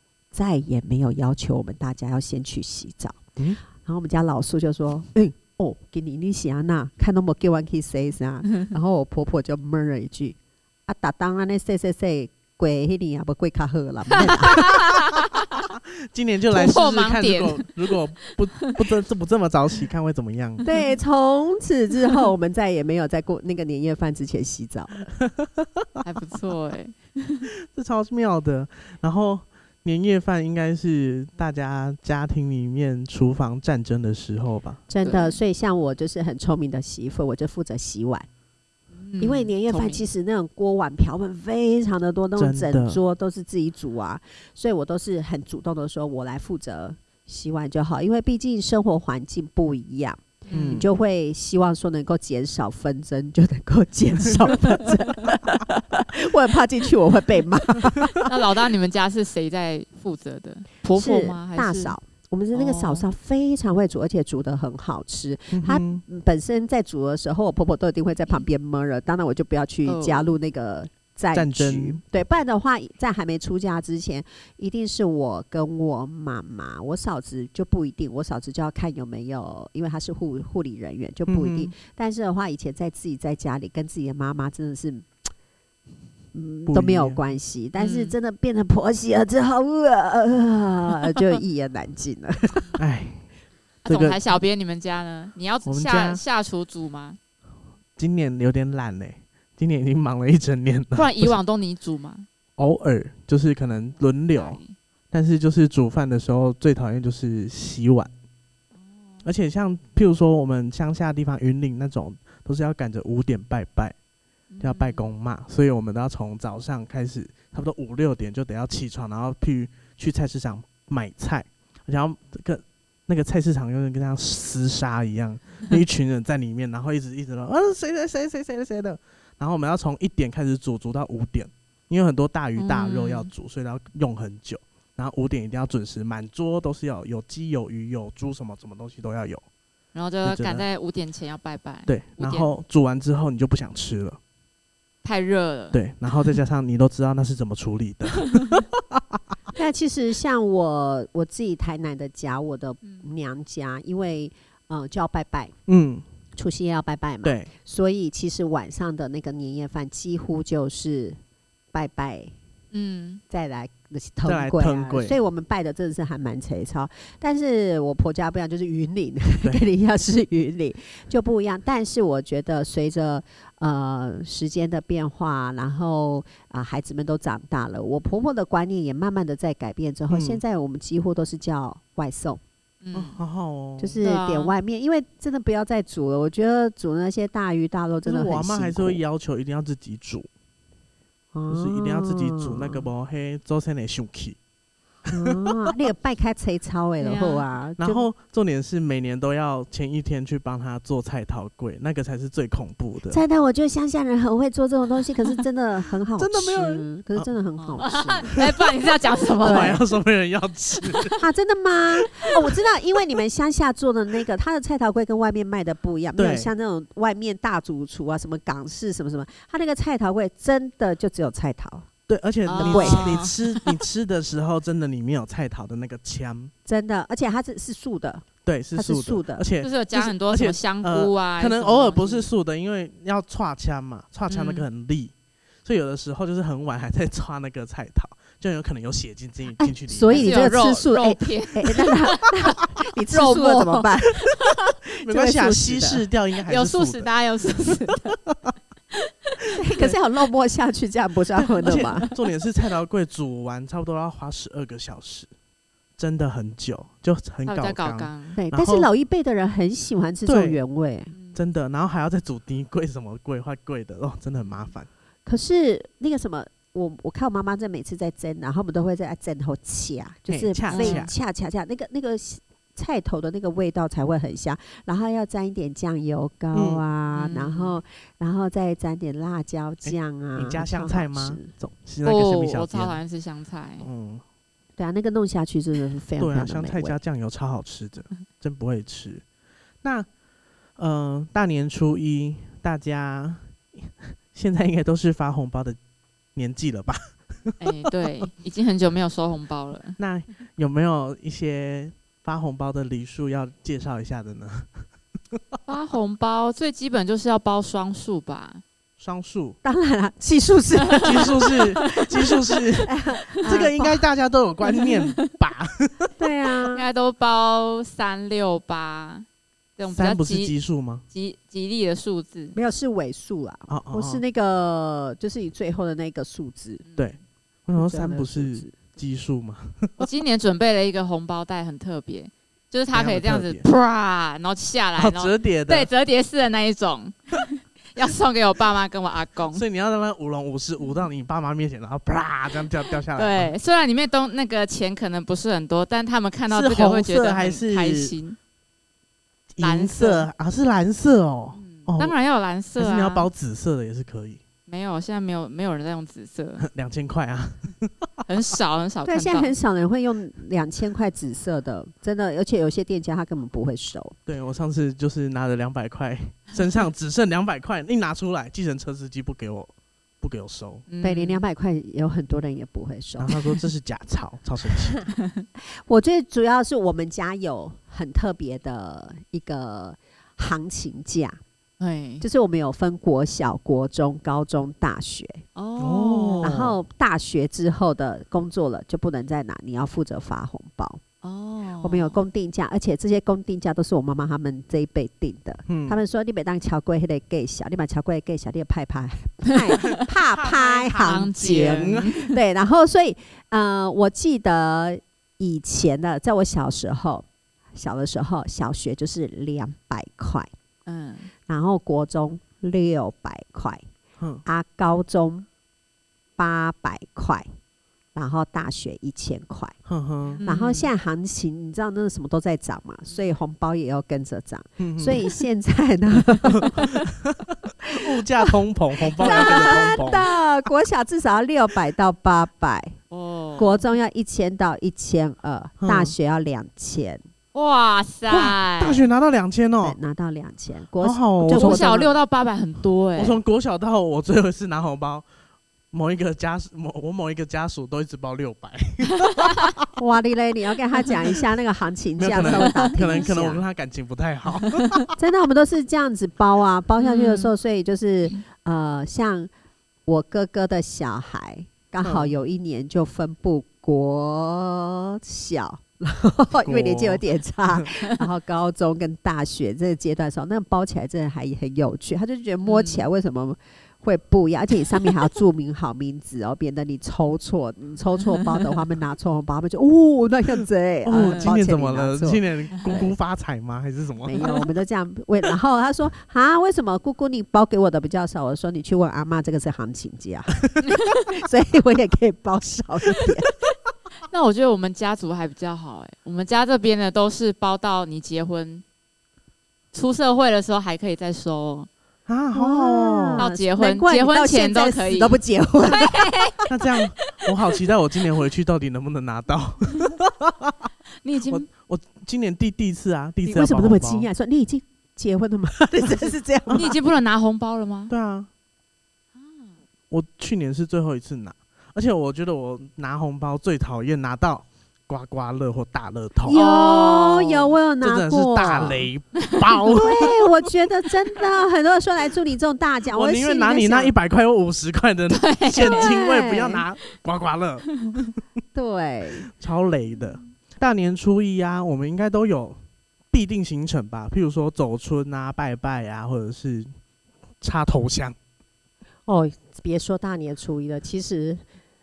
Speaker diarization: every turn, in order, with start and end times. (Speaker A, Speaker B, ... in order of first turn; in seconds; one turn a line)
Speaker A: 0.3-3.2
Speaker A: 3.8-14.6
Speaker B: 14.4-15.4
Speaker C: 16.1-20.6
Speaker B: 16.5-17.7
Speaker B: 20.6-20.9
Speaker A: 20.6-25.0
Speaker B: 26.0-27.5
Speaker C: 27.7-34.8
Speaker A: 34.9-38.3
Speaker B: 35.0-35.4
Speaker B: 38.9-40.0
Speaker A: 39.2-58.3
Speaker C: 42.4-43.0
Speaker B: 50.5-50.9
Speaker C: 50.5-50.9
Speaker B: 58.2-62.0
Speaker A: 60.9-85.0
Speaker B: 62.5-63.0
Speaker C: 65.5-66.0
Speaker B: 69.8-70.3
Speaker C: 71.3-72.0
Speaker C: 81.3-81.7
Speaker A: 86.3-92.8
Speaker C: 86.7-87.2
Speaker B: 87.8-88.1
Speaker C: 92.8-93.3
Speaker B: 93.8-97.2
Speaker C: 93.9-94.2
Speaker C: 95.6-96.2
Speaker C: 98.0-101.4
Speaker B: 100.9-102.3
Speaker C: 102.6-108.1
Speaker B: 104.3-104.7
Speaker B: 108.7-109.2
Speaker C: 109.2-113.9
Speaker B: 114.5-115.1
Speaker C: 114.6-139.4
Speaker B: 132.6-133.3
Speaker B: 139.9-142.5
Speaker C: 140.2-140.6
Speaker C: 141.9-144.2
Speaker B: 145.0-145.8
Speaker C: 145.7-149.0
Speaker A: 149.6-155.5
Speaker B: 152.8-153.1
Speaker C: 155.7-156.0
Speaker A: 156.3-161.2
Speaker C: 157.2-157.5
Speaker A: 161.7-162.3
Speaker B: 162.7-163.2
Speaker A: 163.3-182.4
Speaker C: 164.2-165.2
Speaker C: 180.1-180.4
Speaker B: 182.8-183.2
Speaker C: 182.9-184.0
Speaker A: 183.8-189.0
Speaker B: 184.0-184.6
Speaker C: 188.0-190.3
Speaker A: 191.3-192.9
Speaker C: 191.5-194.4
Speaker C: 195.1-195.7
Speaker A: 195.1-198.1
Speaker B: 197.0-197.5
Speaker C: 197.8-203.2
Speaker A: 203.1-208.3
Speaker C: 206.2-207.3
Speaker B: 207.6-209.8
Speaker C: 209.3-211.1
Speaker A: 209.4-209.8
Speaker A: 211.2-221.9
Speaker C: 216.2-216.5
Speaker C: 222.1-226.5
Speaker B: 222.4-223.7
Speaker A: 222.6-223.2
Speaker A: 226.7-229.4
Speaker C: 228.4-235.1
Speaker B: 229.6-232.3
Speaker B: 234.3-234.7
Speaker C: 235.6-240.3
Speaker A: 239.6-244.3
Speaker B: 240.1-242.2
Speaker B: 243.1-244.5
Speaker A: 244.8-246.1
Speaker C: 245.0-247.1
Speaker B: 246.4-248.2
Speaker B: 248.9-249.9
Speaker A: 249.6-252.1
Speaker C: 251.3-255.3
Speaker B: 251.7-252.1
Speaker C: 256.0-258.9
Speaker B: 257.4-258.4
Speaker A: 258.4-261.1
Speaker C: 260.2-260.6
Speaker B: 261.1-261.4
Speaker C: 261.3-264.9
Speaker B: 264.4-264.7
Speaker A: 265.2-281.5
Speaker C: 270.3-271.1
Speaker B: 270.7-271.1
Speaker C: 276.5-276.8
Speaker B: 277.1-277.8
Speaker C: 279.8-283.0
Speaker B: 282.0-283.9
Speaker C: 283.8-284.2
Speaker A: 284.8-287.0
Speaker C: 286.2-289.2
Speaker C: 289.8-290.1
Speaker C: 290.8-295.8
Speaker C: 296.3-297.6
Speaker B: 297.6-300.0
Speaker C: 300.0-304.7
Speaker B: 305.6-308.6
Speaker C: 309.0-309.6
Speaker A: 309.6-313.9
Speaker C: 311.0-316.3
Speaker B: 311.6-312.0
Speaker B: 313.3-313.8
Speaker B: 314.6-315.2
Speaker A: 316.2-316.9
Speaker B: 316.7-319.2
Speaker B: 319.8-320.6
Speaker C: 319.9-321.0
Speaker B: 321.1-322.6
Speaker A: 322.5-326.8
Speaker C: 323.7-324.2
Speaker B: 326.8-327.2
Speaker C: 327.0-330.1
Speaker A: 327.8-328.7
Speaker B: 330.0-339.6
Speaker C: 332.9-333.7
Speaker C: 334.9-335.9
Speaker C: 339.5-343.5
Speaker B: 343.1-348.4
Speaker C: 346.5-348.1
Speaker C: 349.5-352.2
Speaker B: 349.6-350.3
Speaker B: 351.5-353.3
Speaker C: 352.8-354.4
Speaker B: 354.7-356.7
Speaker C: 356.6-358.1
Speaker B: 358.2-359.6
Speaker A: 359.0-364.2
Speaker C: 364.3-370.8
Speaker B: 370.9-371.4
Speaker A: 371.0-373.3
Speaker C: 373.2-375.1
Speaker A: 375.9-381.4
Speaker B: 381.8-382.2
Speaker A: 382.2-385.4
Speaker B: 385.6-386.5
Speaker C: 385.8-386.8
Speaker A: 386.4-391.0
Speaker B: 391.2-392.2
Speaker A: 391.8-410.5
Speaker C: 395.7-396.0
Speaker C: 399.8-402.4
Speaker B: 401.0-402.2
Speaker B: 410.9-411.3
Speaker A: 411.5-413.8
Speaker C: 414.2-414.4
Speaker A: 414.4-415.4
Speaker A: 416.4-417.4
Speaker A: 418.1-419.7
Speaker C: 419.9-420.4
Speaker B: 420.4-420.9
Speaker A: 420.4-426.9
Speaker C: 424.8-425.2
Speaker C: 426.7-430.3
Speaker A: 427.9-428.2
Speaker A: 429.2-433.0
Speaker B: 429.3-429.7
Speaker B: 433.1-433.8
Speaker A: 433.6-437.2
Speaker C: 435.8-436.1
Speaker B: 437.5-439.1
Speaker C: 438.3-440.0
Speaker A: 439.8-442.1
Speaker C: 441.0-442.1
Speaker B: 441.5-443.4
Speaker C: 443.1-445.3
Speaker C: 445.9-449.9
Speaker A: 450.0-453.6
Speaker C: 452.2-455.1
Speaker A: 455.2-459.5
Speaker B: 457.0-457.5
Speaker A: 460.1-483.1
Speaker C: 462.0-462.4
Speaker C: 466.6-467.9
Speaker B: 472.6-473.1
Speaker B: 478.3-478.7
Speaker C: 481.0-484.5
Speaker B: 481.1-481.5
Speaker B: 482.8-483.1
Speaker A: 484.2-493.5
Speaker B: 494.3-498.8
Speaker B: 499.9-501.9
Speaker C: 502.3-503.5
Speaker A: 502.5-506.4
Speaker B: 503.4-507.5
Speaker C: 506.7-510.7
Speaker B: 511.2-511.7
Speaker C: 511.4-514.3
Speaker A: 513.4-516.9
Speaker C: 516.6-517.0
Speaker B: 516.7-518.1
Speaker C: 518.1-518.5
Speaker B: 519.4-519.7
Speaker C: 520.1-526.6
Speaker A: 526.4-529.1
Speaker B: 526.5-527.5
Speaker C: 527.4-530.7
Speaker B: 529.5-529.8
Speaker A: 529.9-534.1
Speaker C: 533.1-538.4
Speaker B: 535.3-536.1
Speaker A: 535.7-536.8
Speaker A: 538.7-539.5
Speaker C: 539.5-542.8
Speaker C: 543.3-546.9
Speaker C: 547.6-548.3
Speaker A: 549.2-551.6